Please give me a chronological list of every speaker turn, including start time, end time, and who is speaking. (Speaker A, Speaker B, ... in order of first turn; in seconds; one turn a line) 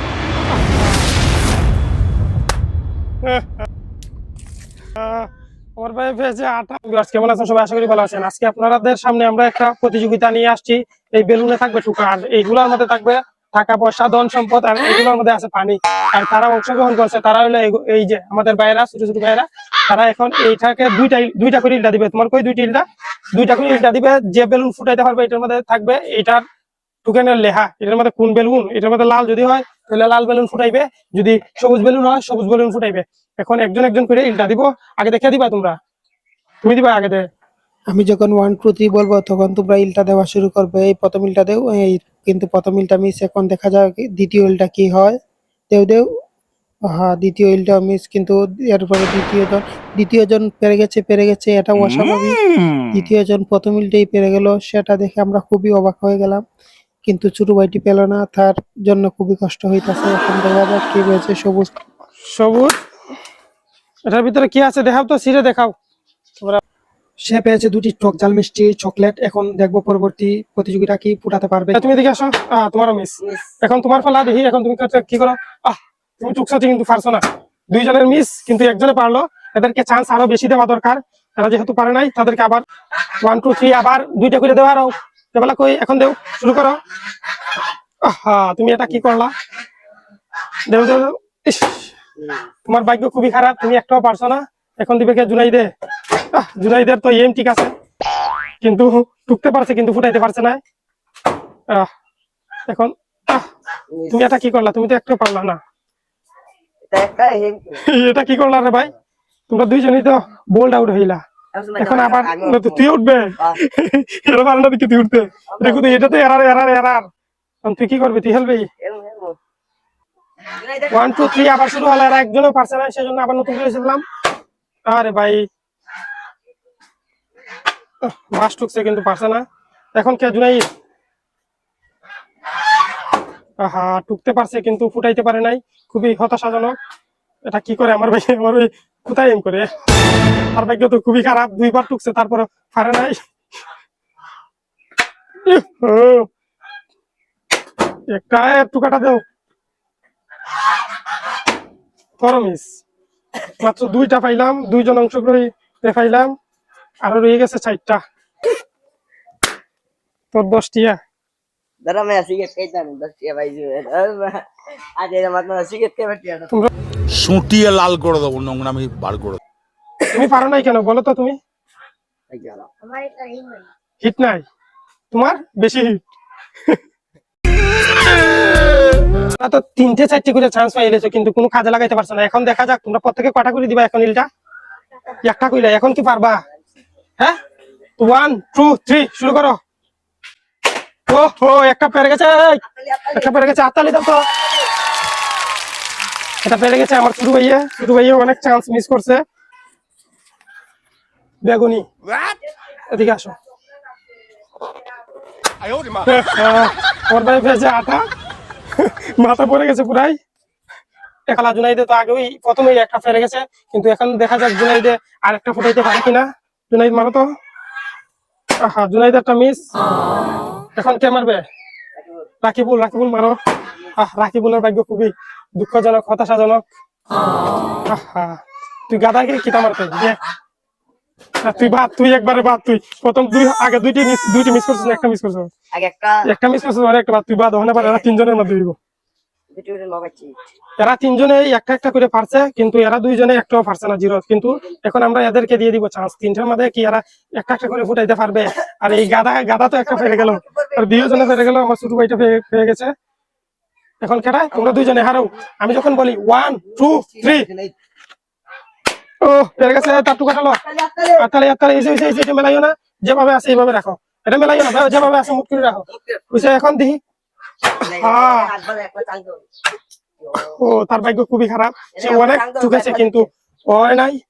Speaker A: 3.2-3.5
Speaker A: 5.0-26.4
Speaker A: 27.0-35.8
Speaker A: 36.6-37.2
Speaker B: 37.9-45.2
Speaker B: 45.7-46.0
Speaker B: 46.9-52.4
Speaker C: 51.9-52.9
Speaker B: 52.9-56.4
Speaker B: 57.1-61.8
Speaker A: 62.3-62.8
Speaker A: 64.1-65.7
Speaker A: 67.2-82.6
Speaker A: 83.2-86.8
Speaker A: 88.0-89.3
Speaker A: 90.7-91.9
Speaker D: 92.2-92.5
Speaker A: 92.7-95.7
Speaker A: 96.3-97.7
Speaker A: 98.6-100.6
Speaker A: 102.7-103.5
Speaker D: 103.9-104.4
Speaker A: 104.1-105.6
Speaker D: 106.9-107.8
Speaker A: 107.8-108.9
Speaker A: 109.5-111.2
Speaker D: 111.5-112.9
Speaker A: 111.8-117.1
Speaker D: 115.5-116.1
Speaker A: 117.6-118.7
Speaker D: 118.8-119.4
Speaker D: 120.6-121.3
Speaker A: 120.9-124.0
Speaker A: 124.9-125.4
Speaker A: 128.0-129.4
Speaker A: 130.0-130.6
Speaker A: 133.6-136.8
Speaker A: 137.5-139.7
Speaker A: 140.5-143.2
Speaker A: 145.5-146.3
Speaker A: 148.1-149.2
Speaker A: 152.2-152.8
Speaker A: 153.6-156.3
Speaker A: 157.0-158.0
Speaker A: 160.3-161.0
Speaker D: 161.8-164.4
Speaker D: 165.0-166.5
Speaker C: 167.1-169.4
Speaker A: 170.1-171.4
Speaker D: 172.3-173.7
Speaker A: 174.0-174.4
Speaker A: 175.1-176.0
Speaker A: 179.3-184.3
Speaker A: 185.2-186.4
Speaker A: 188.0-189.6
Speaker A: 191.1-192.6
Speaker D: 192.7-193.6
Speaker A: 193.1-194.2
Speaker A: 196.4-199.2
Speaker A: 201.4-201.8
Speaker A: 202.9-203.3
Speaker A: 206.0-208.0
Speaker A: 208.8-210.2
Speaker A: 211.3-217.3
Speaker A: 218.6-219.7
Speaker A: 220.8-221.4
Speaker A: 222.4-223.4
Speaker A: 223.9-226.6
Speaker A: 227.9-230.2
Speaker A: 231.4-235.5
Speaker D: 235.7-236.2
Speaker A: 236.3-238.8
Speaker D: 239.5-240.3
Speaker A: 240.8-252.9
Speaker D: 249.9-251.4
Speaker A: 254.0-257.5
Speaker D: 256.8-257.7
Speaker A: 259.2-260.6
Speaker D: 260.6-261.3
Speaker A: 261.2-267.0
Speaker D: 265.9-266.2
Speaker D: 267.8-269.4
Speaker A: 267.9-268.5
Speaker D: 270.2-270.5
Speaker A: 270.4-274.2
Speaker D: 271.9-273.3